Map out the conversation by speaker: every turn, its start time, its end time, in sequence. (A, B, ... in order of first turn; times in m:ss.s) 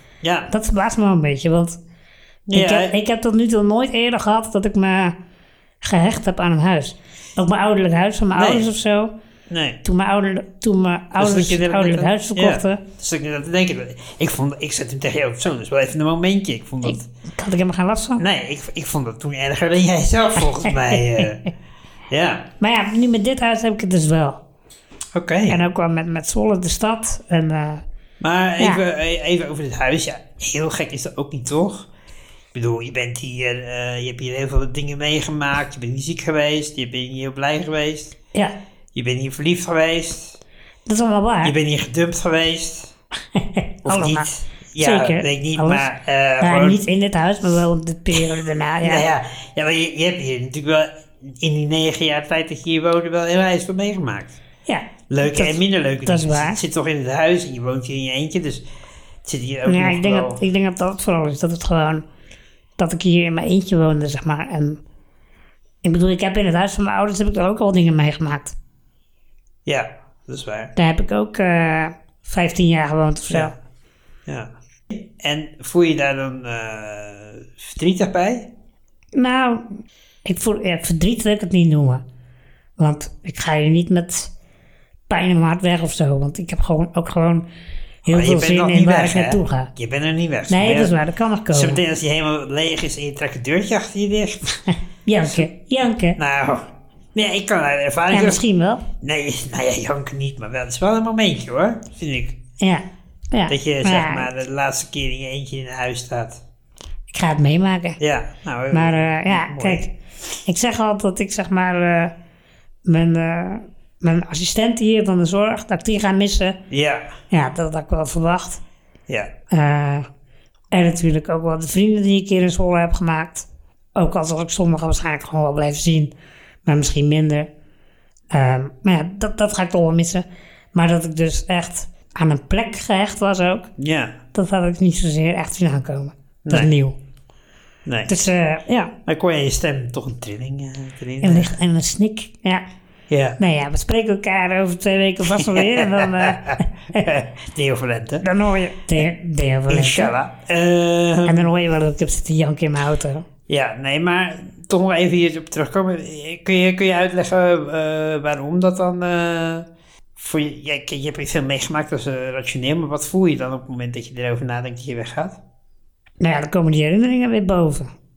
0:00.2-0:00.5 A
0:00.5-0:01.8 B
0:02.5-0:03.0 A
0:02.5-0:05.2 B
0:05.8-0:09.1 B
0:08.3-0:08.7 A
0:09.5-0:09.8 A
0:09.8-0:12.8 B
0:11.2-0:17.0 A
0:16.8-0:18.2 B
0:18.2-0:21.4 A
0:20.6-0:21.2 B
0:22.1-0:22.5 A
0:22.6-0:24.4 B
0:25.1-0:25.6 A
0:25.5-0:27.8 B
0:28.2-0:31.9 A
0:32.5-0:38.1 A
0:38.9-0:40.4 A
0:40.8-0:41.5 B
0:41.4-0:42.9 A
0:43.4-0:45.8 B
0:43.8-0:46.8 A
0:46.4-0:49.0 B
0:48.8-0:54.3 A
0:54.7-0:56.6 B
0:55.1-0:58.6 A
0:59.2-1:00.4 A
0:59.6-1:02.0 B
1:02.8-1:04.8 B
1:05.8-1:08.5 B
1:09.6-1:10.7 A
1:10.8-1:13.5 B
1:14.2-1:18.5 A
1:19.1-1:22.0 B
1:22.8-1:24.3 B
1:25.1-1:27.5 B
1:28.0-1:29.7 B
1:28.1-1:30.9 A
1:30.5-1:31.8 B
1:31.5-1:34.5 A
1:35.0-1:36.2 B
1:36.2-1:38.4 A
1:38.1-1:38.8 B
1:39.0-1:42.4 A
1:42.6-1:44.3 B
1:43.5-1:46.4 A
1:47.1-1:48.0 B
1:48.0-1:49.9 A
1:48.7-1:49.9 B
1:50.4-1:52.1 B
1:52.8-1:56.6 B
1:56.7-1:57.1 A
1:57.3-1:58.6 B
1:59.5-2:00.1 B
2:00.7-2:06.1 B
2:06.6-2:07.5 B
2:08.3-2:13.7 B
2:13.8-2:14.2 A
2:14.3-2:17.0 B
2:16.4-2:16.7 A
2:17.8-2:18.1 A
2:18.1-2:18.9 B
2:19.0-2:21.5 A
2:21.2-2:22.6 B
2:23.1-2:23.4 A
2:23.4-2:27.0 B
2:25.4-2:28.2 A
2:28.2-2:30.1 B
2:29.7-2:31.5 A
2:31.2-2:33.2 B
2:33.5-2:45.4 A
2:46.2-2:47.9 B